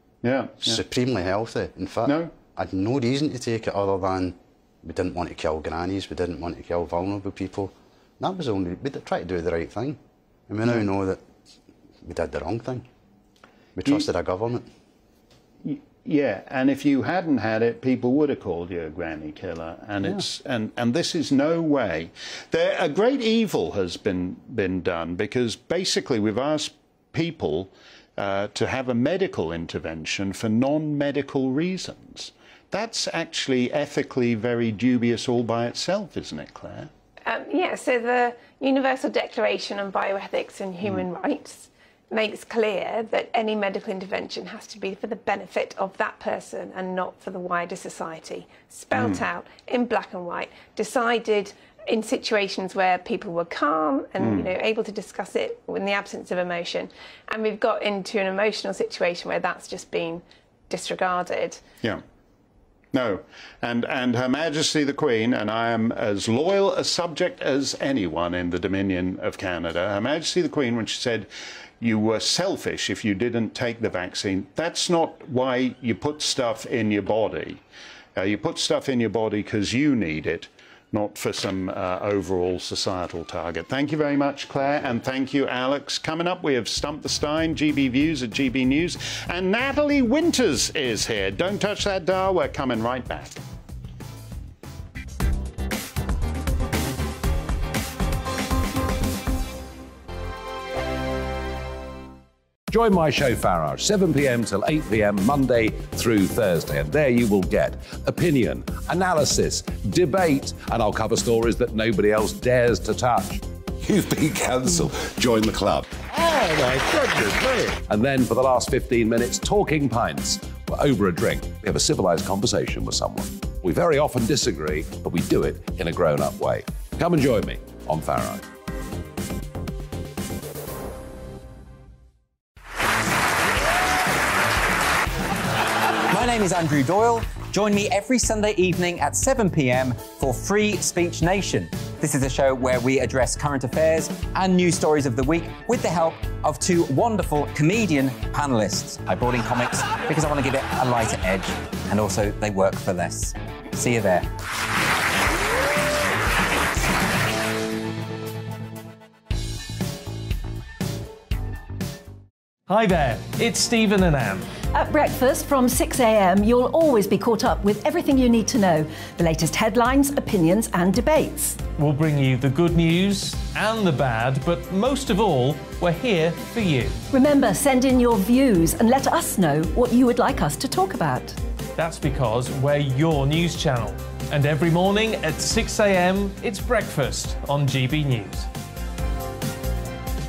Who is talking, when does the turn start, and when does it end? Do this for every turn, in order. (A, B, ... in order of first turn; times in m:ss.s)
0:00.2-0:00.8 A
0:00.6-0:11.2 B
0:02.0-0:02.3 A
0:12.0-0:12.9 B
0:13.8-0:14.7 B
0:15.6-0:36.9 A
0:37.2-1:01.6 C
0:48.9-0:49.2 A
0:54.2-0:54.5 A
1:02.9-1:11.3 A
1:11.8-1:17.6 A
1:18.2-1:33.4 A
1:42.7-2:08.5 D
2:16.1-2:34.3 E
2:42.7-2:44.5 F
2:44.7-2:51.6 G
2:51.7-2:57.0 F
2:57.1-3:01.4 G
3:01.8-3:08.5 F